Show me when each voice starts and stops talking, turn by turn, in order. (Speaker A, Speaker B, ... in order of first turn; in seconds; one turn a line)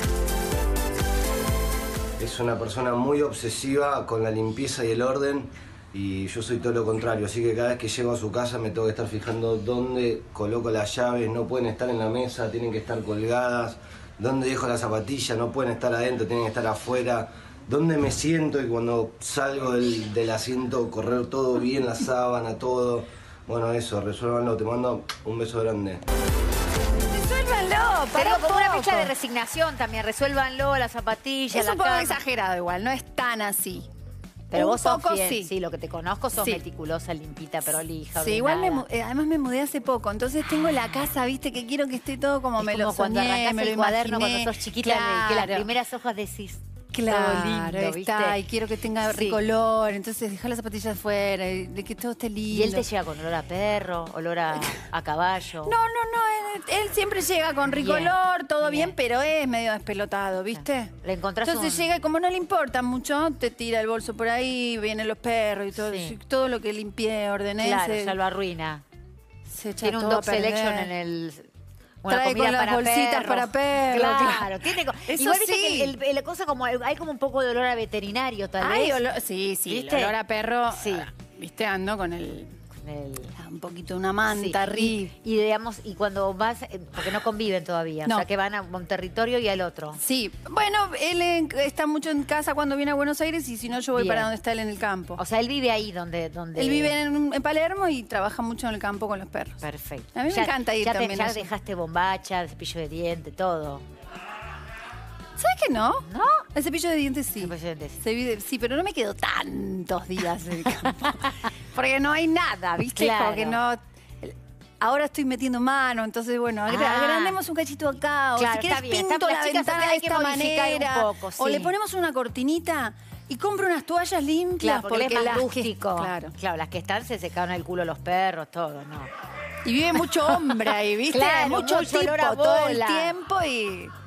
Speaker A: 2.2-26.0
Speaker B: 27.0-29.1
Speaker C: 28.1-32.2
Speaker B: 31.5-33.9
Speaker C: 34.5-38.8
Speaker B: 34.5-35.5
Speaker B: 38.1-45.7
Speaker C: 42.6-48.4
Speaker B: 46.9-52.9
Speaker C: 49.0-49.4
Speaker C: 52.5-55.8
Speaker B: 55.6-68.2
Speaker C: 57.7-59.0
Speaker C: 60.6-61.9
Speaker C: 65.8-66.2
Speaker C: 67.6-68.8
Speaker B: 69.5-70.9
Speaker C: 69.8-71.5
Speaker C: 72.0-79.0
Speaker B: 72.1-76.0
Speaker B: 78.6-82.5
Speaker C: 79.7-80.2
Speaker C: 80.7-81.1
Speaker C: 82.7-83.3
Speaker B: 83.4-85.1
Speaker C: 84.3-90.0
Speaker B: 90.0-95.2
Speaker C: 94.0-94.3
Speaker C: 95.2-97.0
Speaker B: 96.6-99.6
Speaker C: 99.6-103.8
Speaker B: 100.2-101.5
Speaker B: 105.4-126.3
Speaker C: 106.1-106.4
Speaker C: 107.4-108.0
Speaker C: 110.6-111.5
Speaker C: 112.9-113.6
Speaker C: 116.7-117.4
Speaker C: 118.4-121.7
Speaker C: 124.6-129.1
Speaker B: 129.7-133.9
Speaker C: 130.0-133.2